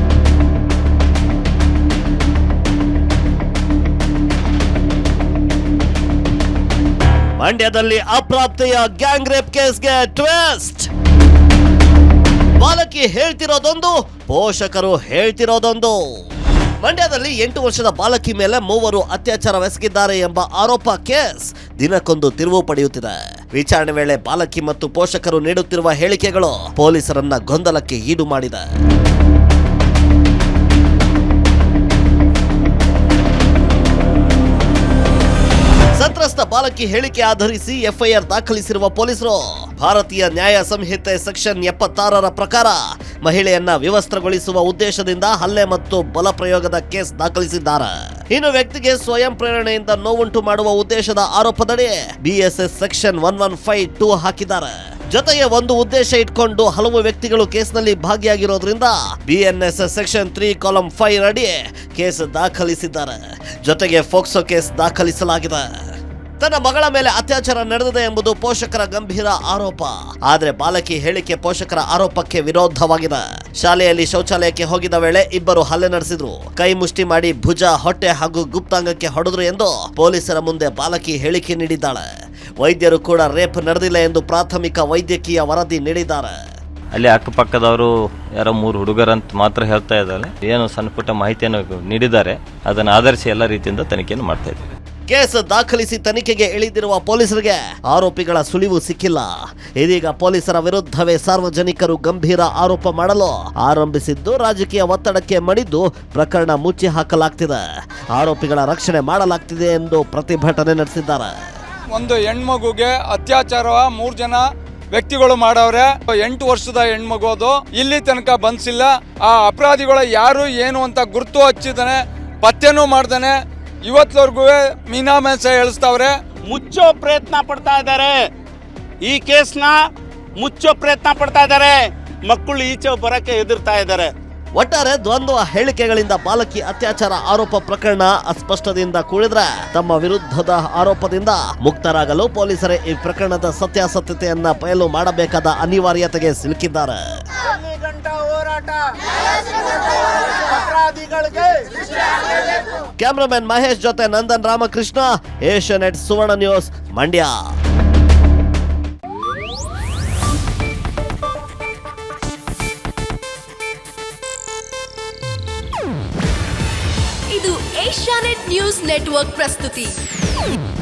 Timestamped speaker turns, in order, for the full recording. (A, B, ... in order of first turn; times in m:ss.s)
0:07.4-0:10.9 A
0:12.6-0:16.0 A
0:16.8-0:28.6 A
0:35.9-1:05.6 A
1:06.4-1:22.1 A
1:22.6-1:26.4 A
1:26.9-1:34.6 B
1:35.1-1:51.3 A
1:51.9-2:06.1 C
2:06.5-2:08.2 D
2:09.0-2:09.8 D
2:10.4-2:14.1 D
2:14.6-2:27.0 A
2:27.4-2:32.4 D
2:33.0-2:37.4 A
2:47.3-2:50.0 E